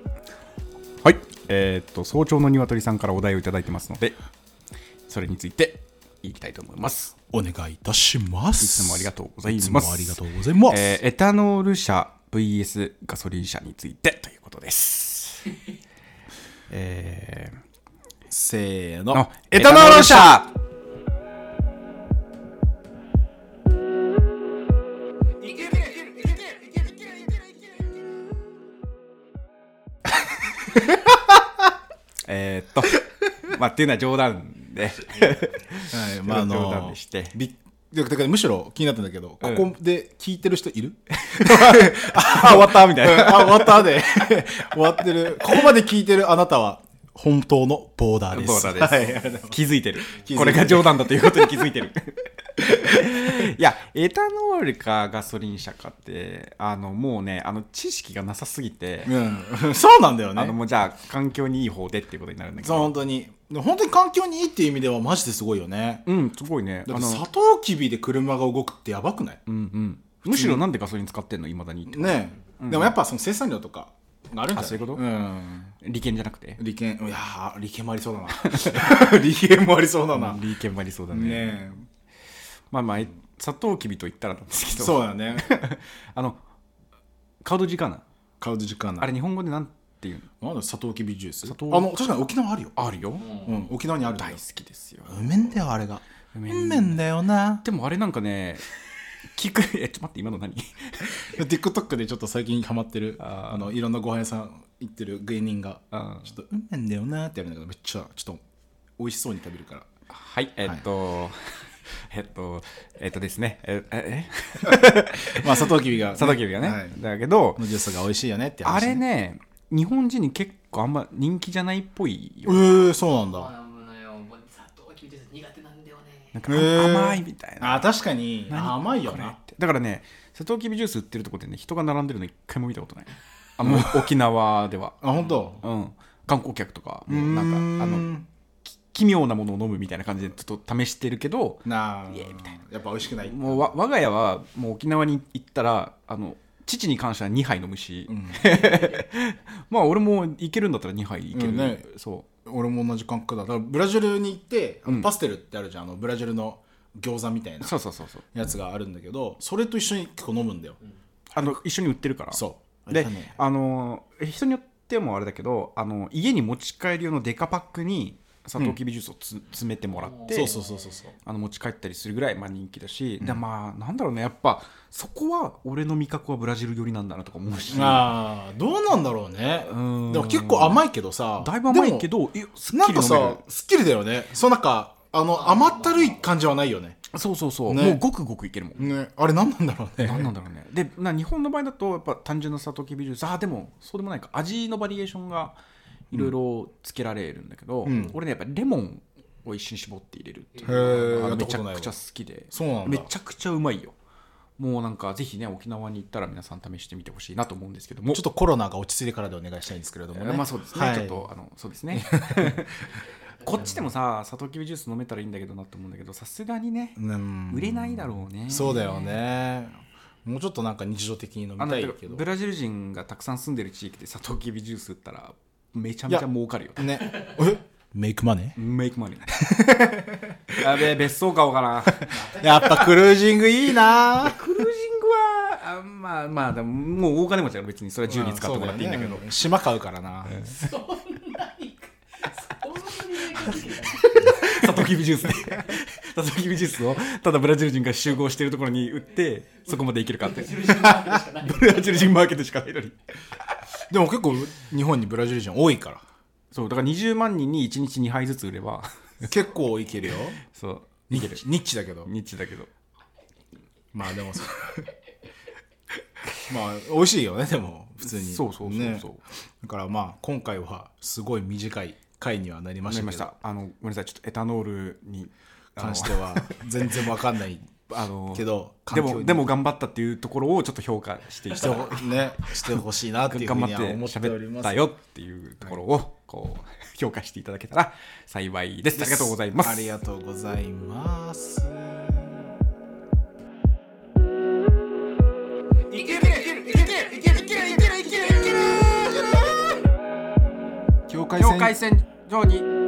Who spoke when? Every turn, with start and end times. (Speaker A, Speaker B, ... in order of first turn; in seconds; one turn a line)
Speaker A: 1.0-4.2
Speaker A: 5.1-7.2
Speaker B: 7.3-11.0
Speaker A: 8.6-15.5
Speaker A: 16.7-17.6
Speaker B: 18.3-20.4
Speaker A: 19.1-20.6
Speaker A: 32.3-37.4
Speaker B: 35.9-51.6
Speaker A: 39.4-39.7
Speaker A: 41.2-44.0
Speaker A: 48.3-59.1
Speaker B: 59.0-60.6
Speaker A: 60.3-62.9
Speaker B: 62.6-66.1
Speaker A: 66.0-67.2
Speaker B: 66.9-69.4
Speaker A: 69.5-73.0
Speaker B: 70.2-70.6
Speaker B: 71.9-75.7
Speaker A: 74.5-75.0
Speaker A: 75.8-76.6
Speaker B: 76.6-80.4
Speaker A: 78.4-79.1
Speaker A: 80.1-81.6
Speaker B: 81.1-81.8
Speaker A: 82.7-86.4
Speaker B: 84.8-85.5
Speaker A: 87.4-88.0
Speaker B: 88.4-89.1
Speaker A: 89.0-90.3
Speaker B: 90.4-92.8
Speaker A: 91.4-92.0
Speaker A: 92.8-93.4
Speaker B: 93.3-94.4
Speaker A: 94.0-95.4
Speaker B: 95.1-97.6
Speaker A: 96.3-97.0
Speaker A: 97.6-101.3
Speaker B: 101.2-108.4
Speaker A: 103.2-103.8
Speaker A: 105.9-106.3
Speaker B: 109.0-109.9
Speaker A: 110.1-117.7
Speaker B: 115.3-117.0
Speaker B: 117.6-119.0
Speaker A: 118.6-122.9
Speaker B: 122.5-123.5
Speaker C: 123.4-126.3
Speaker A: 126.3-127.9
Speaker B: 126.5-129.4
Speaker A: 128.5-135.0
Speaker B: 133.6-134.1
Speaker B: 135.0-135.6
Speaker A: 135.6-138.1
Speaker B: 137.1-138.2
Speaker A: 138.6-142.5
Speaker B: 141.7-143.7
Speaker A: 143.2-152.3
Speaker B: 148.1-148.6
Speaker B: 151.3-151.8
Speaker B: 152.4-157.8
Speaker A: 157.6-158.2
Speaker B: 158.3-160.8
Speaker A: 161.3-170.6
Speaker B: 162.3-163.4
Speaker B: 170.3-171.1
Speaker A: 171.2-178.2
Speaker B: 177.7-182.1
Speaker A: 179.6-180.9
Speaker A: 181.4-183.4
Speaker B: 182.7-187.0
Speaker A: 187.1-188.9
Speaker B: 187.7-188.0
Speaker B: 188.8-190.3
Speaker A: 190.0-195.6
Speaker A: 196.1-203.9
Speaker B: 197.8-198.2
Speaker B: 200.6-201.9
Speaker B: 202.5-203.1
Speaker A: 204.6-208.2
Speaker B: 208.1-211.3
Speaker A: 210.1-217.0
Speaker B: 211.9-212.7
Speaker B: 217.0-222.2
Speaker A: 217.5-219.2
Speaker A: 221.6-227.0
Speaker B: 226.8-228.6
Speaker A: 228.6-230.0
Speaker B: 229.4-230.6
Speaker A: 230.5-232.8
Speaker B: 232.0-234.4
Speaker A: 233.9-239.3
Speaker B: 238.1-240.4
Speaker A: 240.3-240.9
Speaker C: 240.6-244.1
Speaker A: 243.2-253.0
Speaker C: 250.4-251.8
Speaker B: 253.9-256.0
Speaker A: 256.5-259.3
Speaker B: 259.2-260.4
Speaker A: 260.5-261.5
Speaker B: 261.1-262.1
Speaker A: 262.0-262.7
Speaker B: 263.9-264.9
Speaker B: 266.5-269.1
Speaker A: 268.0-269.2
Speaker B: 269.6-273.3
Speaker A: 272.9-277.2
Speaker B: 275.8-277.7
Speaker A: 277.8-289.9
Speaker B: 278.3-279.5
Speaker B: 281.5-284.8
Speaker B: 288.9-292.5
Speaker B: 295.9-296.8
Speaker A: 296.1-298.8
Speaker B: 301.1-301.8
Speaker A: 301.4-302.7